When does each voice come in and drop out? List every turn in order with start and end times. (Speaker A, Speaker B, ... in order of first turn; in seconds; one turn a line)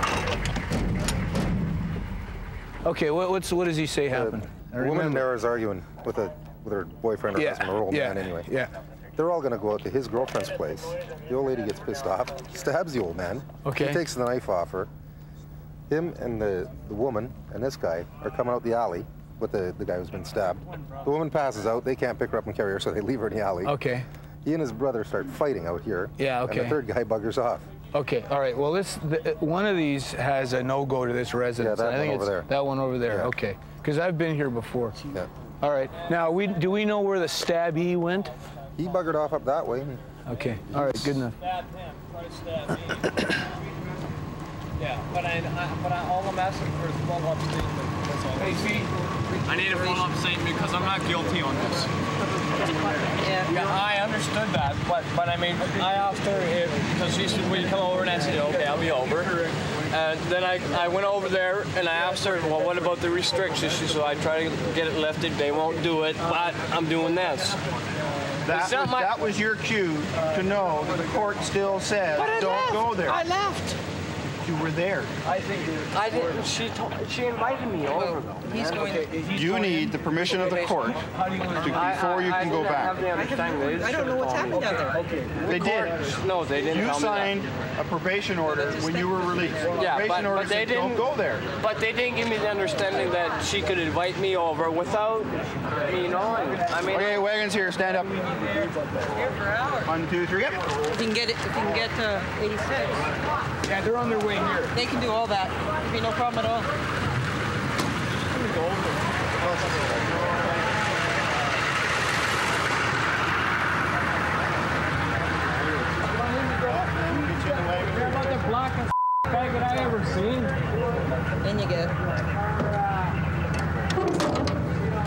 Speaker A: 2.9-5.3
Speaker B: 4.1-8.5
Speaker A: 7.3-8.7
Speaker B: 9.2-14.9
Speaker A: 13.6-14.0
Speaker B: 15.9-23.7
Speaker A: 23.6-24.1
Speaker B: 24.4-27.6
Speaker A: 26.2-26.8
Speaker A: 27.9-35.0
Speaker B: 31.6-32.5
Speaker A: 35.6-38.4
Speaker B: 38.8-40.0
Speaker A: 40.3-41.4
Speaker C: 41.6-42.8
Speaker C: 44.8-48.9
Speaker C: 49.4-51.9
Speaker C: 53.2-67.6
Speaker D: 68.5-73.2
Speaker C: 68.5-69.2
Speaker C: 72.2-72.9
Speaker D: 74.4-75.2
Speaker C: 75.2-78.5
Speaker E: 78.5-79.1
Speaker D: 79.3-81.1
Speaker D: 81.6-83.0
Speaker C: 81.7-84.8
Speaker D: 85.4-91.5
Speaker C: 85.5-87.4
Speaker C: 89.7-91.0
Speaker C: 91.6-97.2
Speaker D: 96.9-98.2
Speaker E: 99.3-99.8
Speaker D: 99.8-100.7
Speaker E: 100.9-103.0
Speaker E: 104.8-106.7